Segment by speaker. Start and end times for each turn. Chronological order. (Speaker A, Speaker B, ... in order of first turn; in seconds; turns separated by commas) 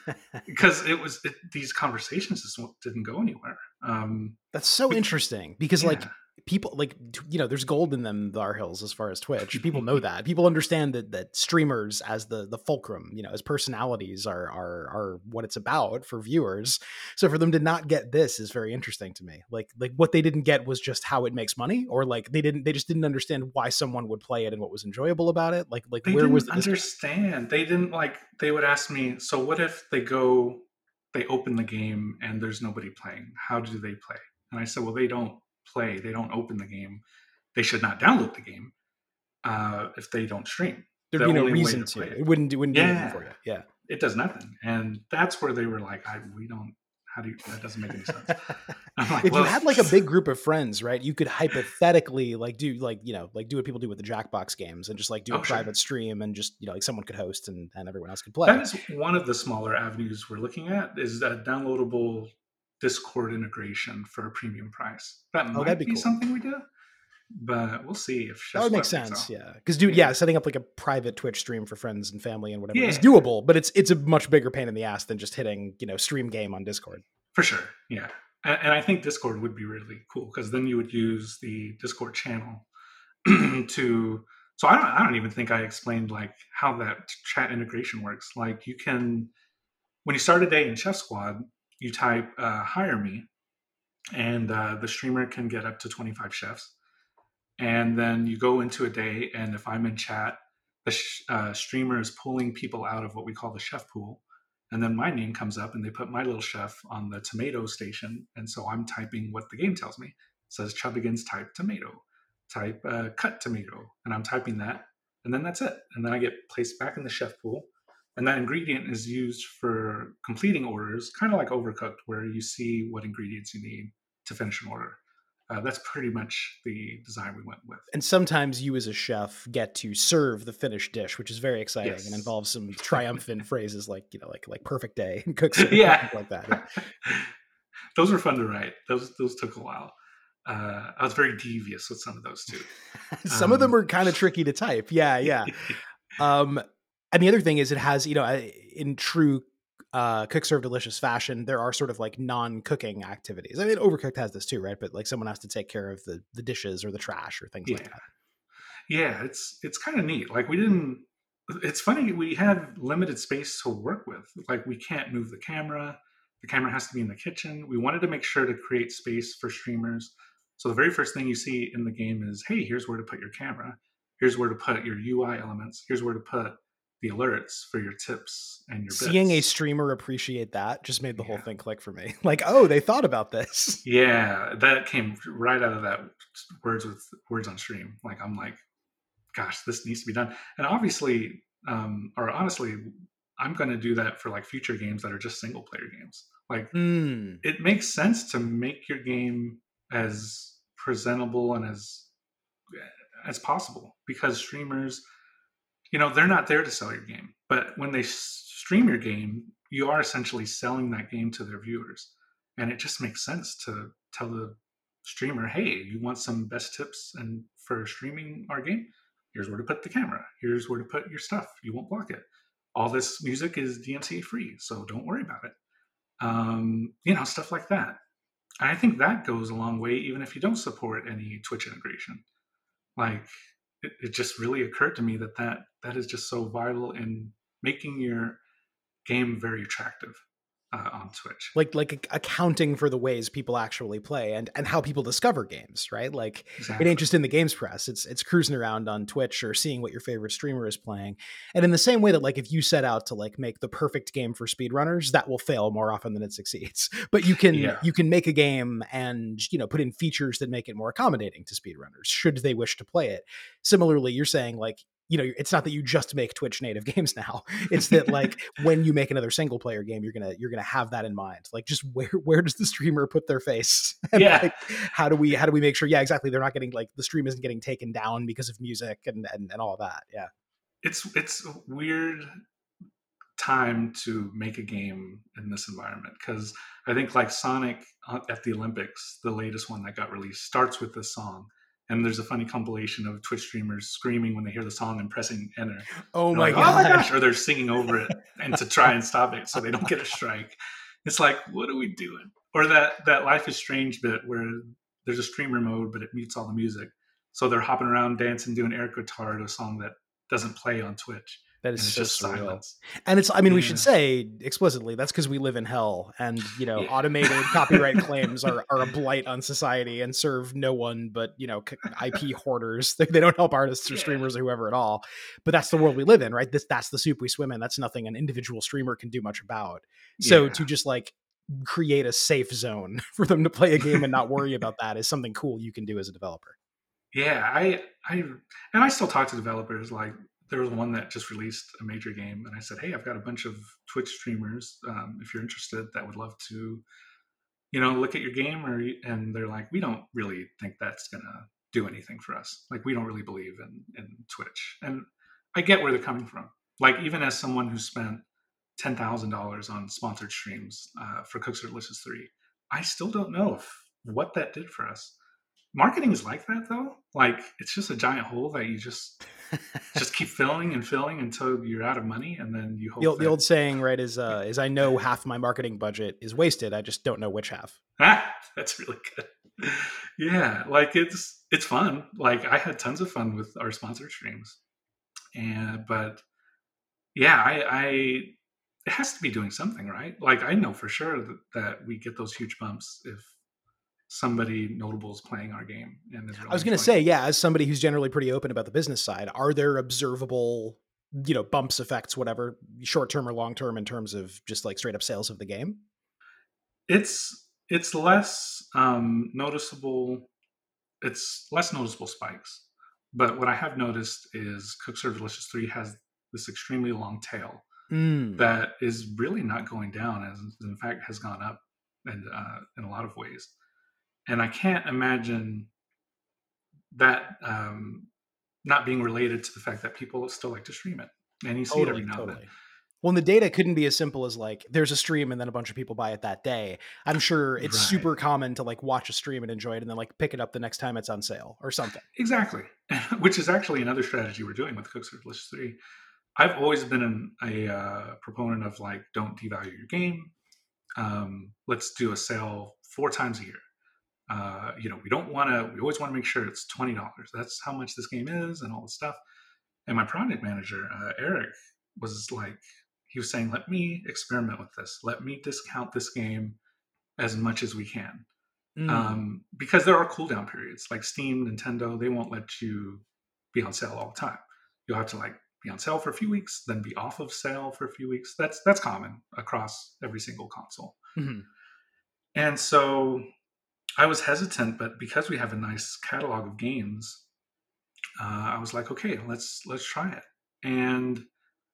Speaker A: 0.4-4.4, Speaker B: 4.5-26.8, Speaker A: 5.8-6.1, Speaker A: 9.5-9.8, Speaker A: 26.0-37.0, Speaker A: 37.5-38.7, Speaker A: 39.4-43.3, Speaker B: 41.1-43.6, Speaker A: 43.9-48.4, Speaker A: 49.0-49.9, Speaker B: 49.2-58.7, Speaker A: 55.3-55.7, Speaker A: 58.5-66.7, Speaker B: 65.5-66.1, Speaker A: 67.3-69.3, Speaker B: 68.5-77.0, Speaker A: 69.9-70.1, Speaker A: 72.7-73.1, Speaker A: 77.3-82.7, Speaker A: 83.2-89.3, Speaker A: 90.0-93.3, Speaker A: 94.1-96.7, Speaker A: 97.6-125.0, Speaker A: 125.5-127.9, Speaker B: 127.9-136.8, Speaker A: 131.8-132.3, Speaker A: 135.5-137.3, Speaker A: 137.9-139.9, Speaker A: 140.4-142.7, Speaker B: 143.1-158.0, Speaker A: 143.3-143.8, Speaker A: 145.2-145.8, Speaker A: 157.6-158.0, Speaker A: 158.9-179.4, Speaker B: 178.9-183.8, Speaker A: 181.2-181.4, Speaker A: 183.8-188.6, Speaker A: 189.3-196.7, Speaker B: 196.7-197.4, Speaker A: 197.4-202.1, Speaker A: 202.7-205.0, Speaker A: 205.9-225.5, Speaker A: 226.2-228.0, Speaker A: 228.6-232.2, Speaker A: 233.0-238.4, Speaker A: 239.0-241.5, Speaker B: 241.5-280.3, Speaker A: 246.6-247.0, Speaker A: 257.5-257.9, Speaker A: 267.7-268.3, Speaker A: 274.1-274.6, Speaker A: 280.8-282.3, Speaker A: 283.4-312.8, Speaker B: 296.1-297.1, Speaker B: 311.6-336.6, Speaker A: 313.5-313.9, Speaker A: 316.7-318.3, Speaker A: 323.9-324.2, Speaker A: 330.2-330.7, Speaker A: 337.1-346.8, Speaker A: 347.7-358.2, Speaker A: 358.8-365.1, Speaker A: 365.7-369.2, Speaker A: 369.9-373.4, Speaker B: 373.0-377.8, Speaker A: 378.0-384.6, Speaker A: 385.4-386.2, Speaker A: 387.1-388.4, Speaker A: 388.9-393.3, Speaker A: 394.1-396.9, Speaker B: 396.4-405.8, Speaker A: 406.9-410.3, Speaker A: 411.0-417.6, Speaker B: 417.9-418.4, Speaker A: 418.4-423.5, Speaker A: 424.3-425.7, Speaker A: 426.9-428.1, Speaker A: 428.6-432.4, Speaker B: 431.7-432.5, Speaker B: 433.0-442.0, Speaker A: 437.6-438.1, Speaker A: 442.1-445.8, Speaker A: 446.4-450.3, Speaker A: 451.0-453.6, Speaker A: 454.3-459.2, Speaker A: 459.9-466.6, Speaker A: 467.2-468.2, Speaker B: 468.8-469.2, Speaker A: 468.9-481.0, Speaker B: 481.1-481.4, Speaker A: 482.4-483.2, Speaker A: 484.0-487.2, Speaker A: 488.2-491.2